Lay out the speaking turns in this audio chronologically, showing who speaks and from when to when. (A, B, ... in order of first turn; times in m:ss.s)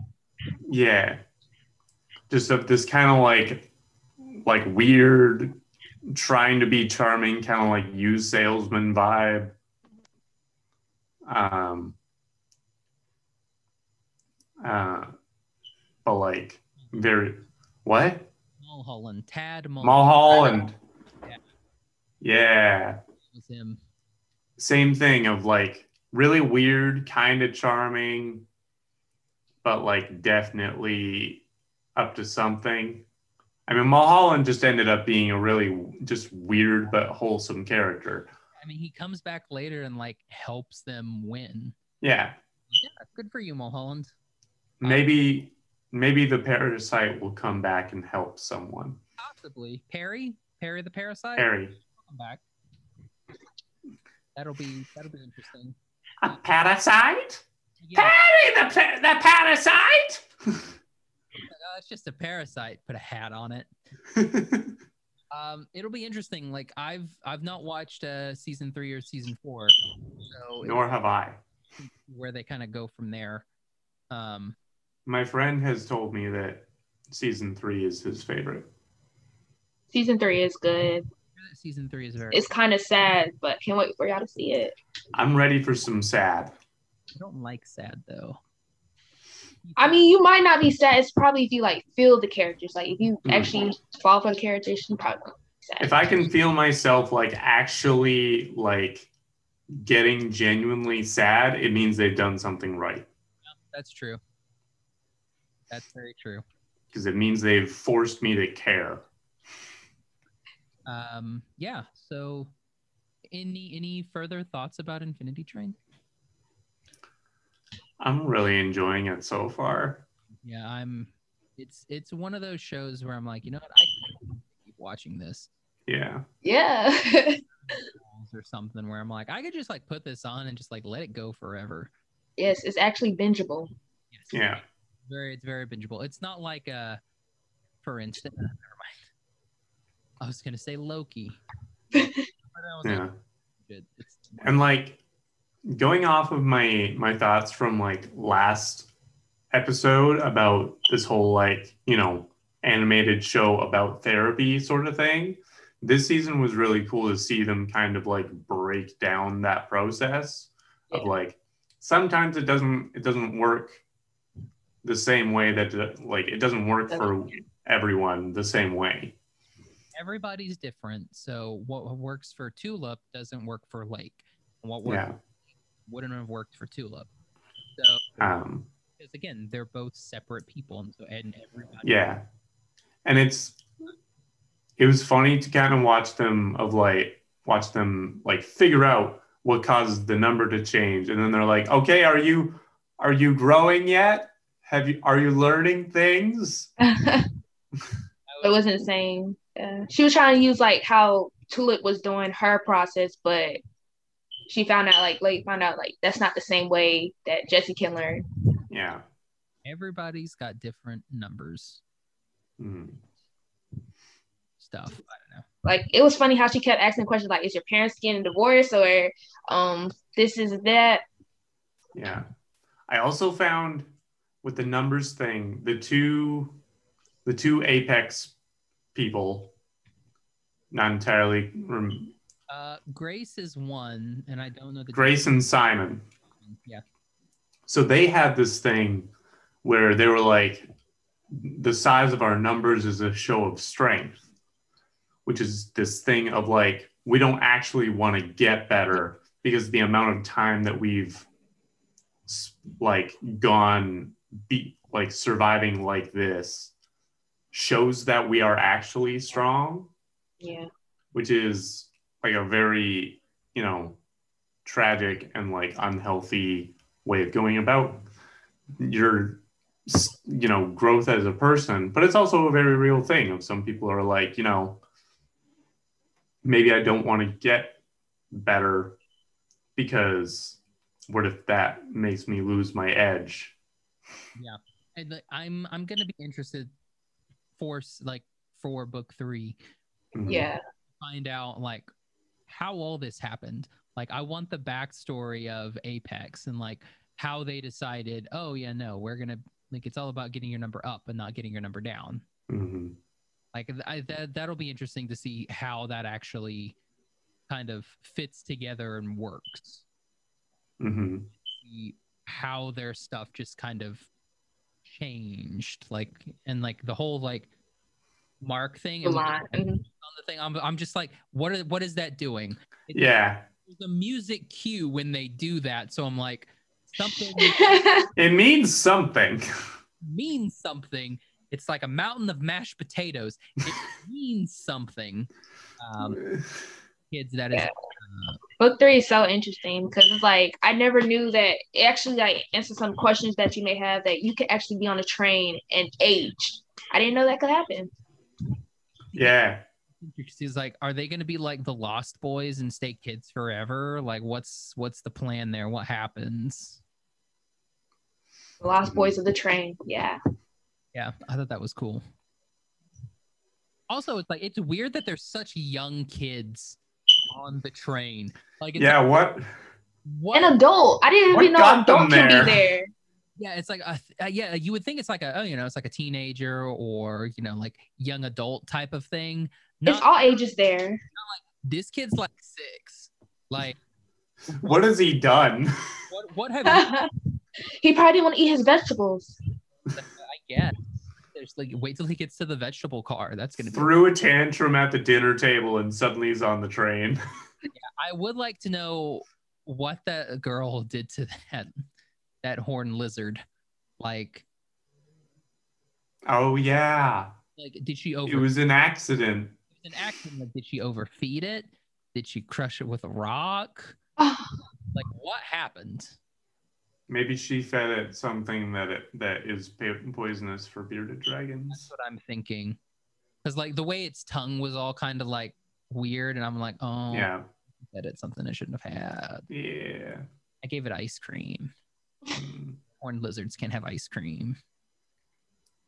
0:00.6-0:01.2 A
0:02.3-0:03.7 A
0:04.3-0:05.5 A
0:06.0-0:09.5 A
0:11.2-0:12.0 A
0:14.6-0:15.1 A
0:16.0-0:18.3 A
0:18.6-0:20.7 B
0:19.8-0:20.7 A
0:22.2-0:23.0 A
0:23.2-0:23.8 B
0:24.6-0:28.4 A
0:29.6-0:31.4 A
0:32.0-0:33.0 A
0:33.7-0:38.3 A
0:38.6-0:41.8 B
0:42.0-0:42.4 A
0:42.7-0:44.1 B
0:44.8-0:49.0 A
0:44.8-0:45.1 B
0:49.2-0:52.4 B
0:51.4-0:51.8 A
0:54.3-0:55.8 B
0:56.2-0:57.4 A
0:57.8-0:58.2 B
0:58.0-1:00.7 A
1:01.5-1:03.7 B
1:04.1-1:04.8 A
1:05.3-1:09.8 B
1:10.3-1:10.8 B
1:10.6-1:11.4 A
1:11.8-1:13.4 B
1:14.1-1:14.6 B
1:15.0-1:18.7 A
1:19.9-1:21.0 C
1:21.4-1:22.4 B
1:22.3-1:24.7 C
1:25.1-1:26.5 A
1:27.1-1:28.4 B
1:29.6-1:30.0 B
1:29.8-1:35.9 C
1:33.2-1:33.5 A
1:35.8-1:39.1 A
1:39.7-1:43.1 A
1:43.4-1:44.2 B
1:45.7-1:46.4 B
1:46.9-1:49.0 A
1:50.8-1:52.5 B
1:53.3-1:55.8 B
1:58.0-2:00.0 A
2:00.4-2:05.5 B
2:05.9-2:06.2 A
2:06.4-2:07.4 C
2:07.6-2:11.9 B
2:12.4-2:13.7 C
2:14.1-2:17.0 B
2:14.3-2:14.6 A
2:17.8-2:19.0 B
2:20.2-2:21.4 B
2:21.9-2:22.2 C
2:22.5-2:24.5 B
2:22.8-2:23.1 A
2:24.4-2:25.0 A
2:25.6-2:28.9 A
2:29.5-2:43.8 A
2:44.8-2:49.2 A
2:49.9-2:55.1 B
2:54.8-2:55.2 A
2:55.8-2:57.1 B
2:57.8-2:58.2 B
2:58.2-2:58.7 A
2:59.0-3:02.1 B
3:01.8-3:02.2 A
3:03.0-3:03.6 A
3:04.8-3:16.7 A
3:16.8-3:17.3 C
3:18.3-3:18.6 B
3:18.4-3:23.6 C
3:24.5-3:28.2 C
3:28.7-3:29.0 A
3:29.6-3:31.8 B
3:32.6-3:33.0 A
3:34.6-3:35.4 B
3:35.6-3:41.0 C
3:41.9-3:42.2 A
3:42.9-3:43.9 A
3:44.4-3:46.6 A
3:47.2-3:48.3 A
3:48.9-3:49.5 A
3:50.7-3:52.1 A
3:52.5-3:55.3 B
3:54.9-3:56.0 A
3:56.4-3:56.8 B
3:57.7-3:59.1 A
3:59.6-4:00.6 A
4:01.3-4:04.2 A
4:05.2-4:11.3 A
4:12.3-4:16.7 A
4:17.5-4:19.9 A
4:20.4-4:20.7 C
4:21.1-4:24.0 A
4:24.6-4:28.0 A
4:28.8-4:34.8 A
4:36.4-4:37.8 A
4:38.3-4:39.0 A
4:39.8-4:43.5 A
4:44.4-4:46.7 B
4:47.6-4:49.6 B
4:50.1-4:50.5 A
4:50.2-4:50.6 C
4:51.0-4:51.9 B
4:52.5-5:02.2 B
5:02.5-5:03.0 A
5:03.5-5:06.8 B
5:07.5-5:09.8 B
5:10.8-5:11.3 A
5:11.4-5:14.1 B
5:14.8-5:17.5 B
5:18.4-5:27.8 B
5:19.0-5:19.8 C
5:22.9-5:23.4 A
5:27.4-5:28.0 C
5:28.2-5:29.4 A
5:30.0-5:36.2 B
5:37.1-5:38.4 B
5:38.6-5:47.9 C
5:49.1-5:49.6 A
5:50.0-5:56.8 B
5:58.6-6:00.2 C
5:58.8-5:59.1 A
6:00.9-6:02.0 B
6:03.9-6:06.8 B
6:07.3-6:09.0 B
6:08.8-6:09.6 A
6:10.0-6:10.6 B
6:10.3-6:12.9 C
6:11.3-6:12.6 A
6:13.4-6:20.1 B
6:19.9-6:21.0 C
6:21.1-6:23.8 B
6:24.5-6:25.7 A
6:26.1-6:26.9 B
6:26.6-6:27.1 C
6:27.8-6:29.4 C
6:29.9-6:33.9 B
6:33.7-6:37.2 A
6:37.7-6:41.9 B
6:42.4-6:43.4 B
6:44.0-6:44.4 B
6:46.2-6:47.3 A
6:47.6-6:48.5 B
6:48.2-6:49.5 A
6:49.7-6:54.0 B
6:54.2-6:54.6 C
6:54.9-6:56.2 B
6:57.1-7:01.9 A
7:01.7-7:02.8 B
7:03.4-7:07.3 B
7:07.1-7:07.4 A
7:07.8-7:09.5 B
7:09.5-7:10.2 A
7:10.6-7:11.7 B
7:12.3-7:12.8 A
7:13.0-7:14.6 B